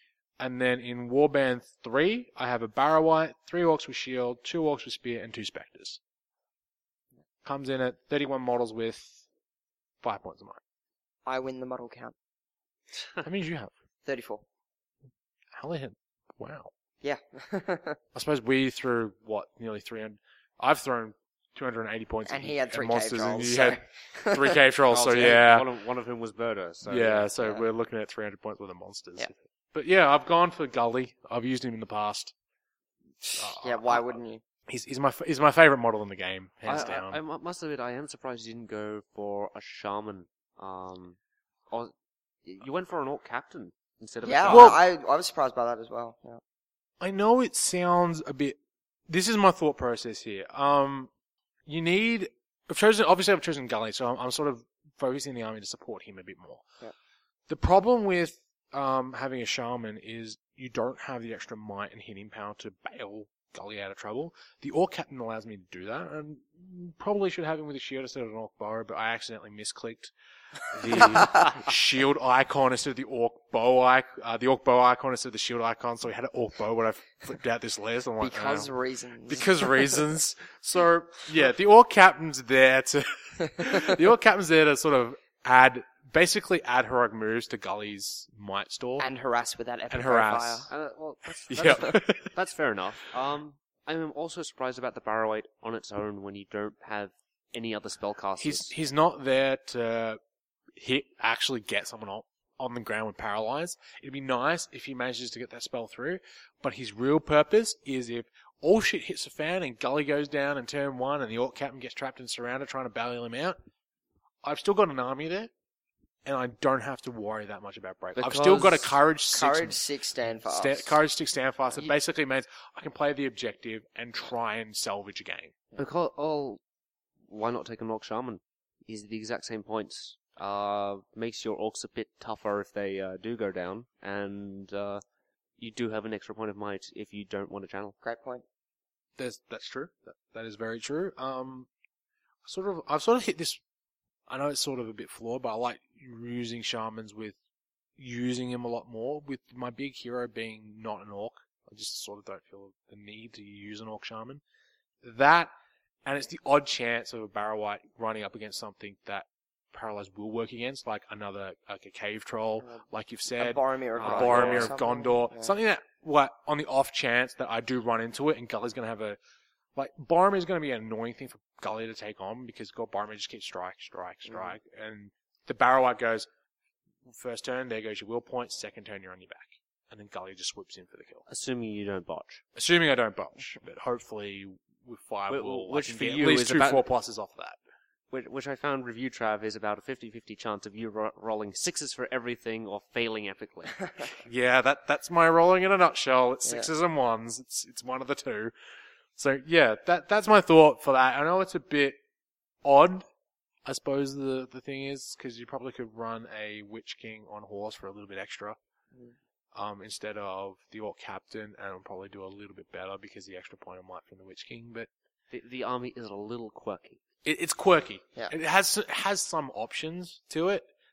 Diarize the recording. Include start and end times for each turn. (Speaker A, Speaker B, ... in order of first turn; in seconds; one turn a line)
Speaker A: 0.4-6.0
Speaker A: 7.4-9.2
Speaker A: 10.0-10.6
Speaker B: 11.2-12.1
Speaker A: 13.2-13.7
Speaker B: 14.1-14.4
Speaker A: 15.5-16.7
Speaker B: 17.0-18.0
Speaker A: 18.1-25.7
Speaker B: 22.3-24.6
Speaker C: 24.9-27.3
Speaker A: 26.9-32.3
Speaker B: 33.2-34.4
Speaker A: 33.4-34.1
Speaker A: 34.7-37.2
Speaker C: 36.6-41.2
Speaker C: 42.4-44.8
Speaker B: 44.2-46.4
Speaker A: 44.5-44.8
Speaker A: 47.0-48.6
Speaker A: 49.1-51.1
Speaker A: 51.7-56.7
Speaker A: 57.5-70.1
Speaker A: 70.7-78.7
Speaker B: 70.9-71.5
Speaker B: 78.2-80.1
Speaker A: 79.2-89.1
Speaker B: 83.6-84.0
Speaker B: 89.0-90.7
Speaker A: 89.9-90.7
Speaker C: 90.7-98.7
Speaker A: 91.5-92.3
Speaker A: 98.4-100.2
Speaker A: 100.8-113.6
Speaker A: 114.4-115.5
Speaker A: 116.2-119.8
Speaker C: 118.2-119.0
Speaker B: 119.3-121.0
Speaker A: 120.4-125.5
Speaker C: 125.8-126.6
Speaker C: 127.3-135.0
Speaker C: 135.6-137.9
Speaker B: 138.0-138.4
Speaker A: 139.2-141.7
Speaker A: 142.4-143.6
Speaker A: 144.3-147.4
Speaker A: 148.0-154.4
Speaker A: 155.0-155.5
Speaker A: 156.1-169.2
Speaker B: 163.4-165.5
Speaker C: 164.0-164.7
Speaker A: 169.8-176.3
Speaker A: 177.1-181.2
Speaker C: 181.3-182.4
Speaker A: 182.5-187.6
Speaker C: 185.3-186.8
Speaker C: 188.1-193.9
Speaker A: 194.2-198.5
Speaker A: 199.2-202.0
Speaker A: 202.6-203.0
Speaker A: 203.7-208.6
Speaker A: 209.5-214.9
Speaker C: 215.3-217.0
Speaker A: 217.2-220.7